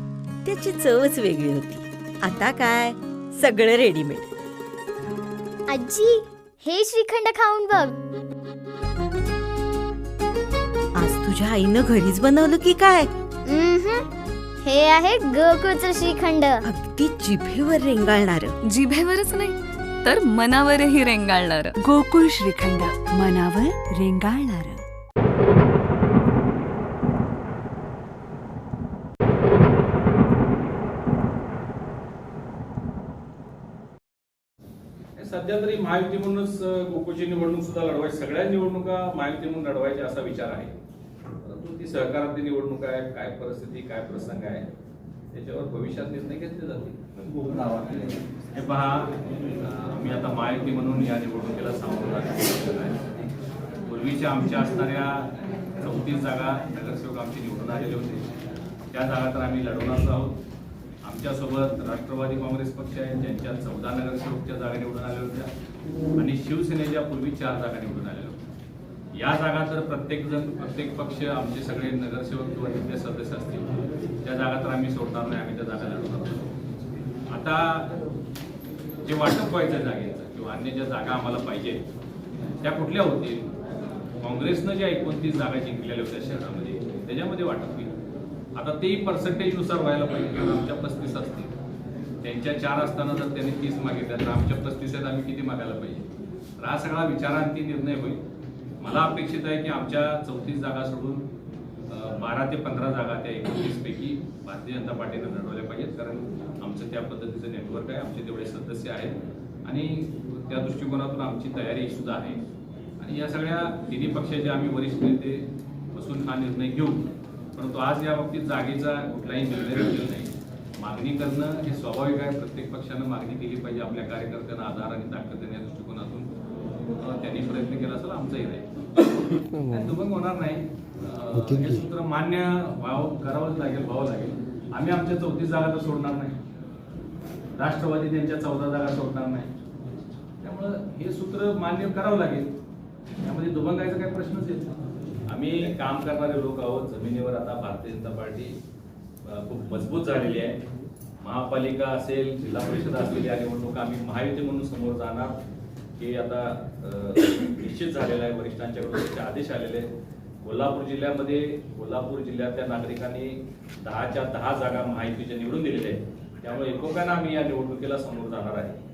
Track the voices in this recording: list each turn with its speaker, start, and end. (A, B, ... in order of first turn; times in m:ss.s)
0:00.4-0:04.3 A
0:05.7-0:08.0 B
0:11.0-0:13.1 A
0:13.5-0:14.1 B
0:14.6-0:16.6 B
0:16.6-0:18.6 A
0:18.7-0:21.7 C
0:21.8-0:24.8 D
0:35.2-0:40.7 E
0:41.4-0:44.7 E
0:45.3-0:53.3 E
0:53.8-0:58.3 E
0:58.9-1:00.4 E
1:01.0-1:05.5 E
1:06.2-1:08.4 E
1:09.1-1:13.7 E
1:14.2-1:16.5 E
1:17.3-1:17.9 E
1:19.0-1:21.8 E
1:22.6-1:23.5 E
1:24.2-1:28.0 E
1:28.6-1:31.5 E
1:32.2-1:36.1 E
1:36.6-1:38.2 E
1:38.8-1:41.3 E
1:41.9-1:52.4 E
1:53.0-2:06.3 E
2:07.0-2:08.7 E
2:09.5-2:16.4 E
2:17.6-2:19.5 E
2:20.4-2:22.5 E
2:23.2-2:28.6 E
2:29.2-2:30.6 E
2:31.2-2:35.3 E
2:36.0-2:39.9 E
2:40.4-2:48.8 E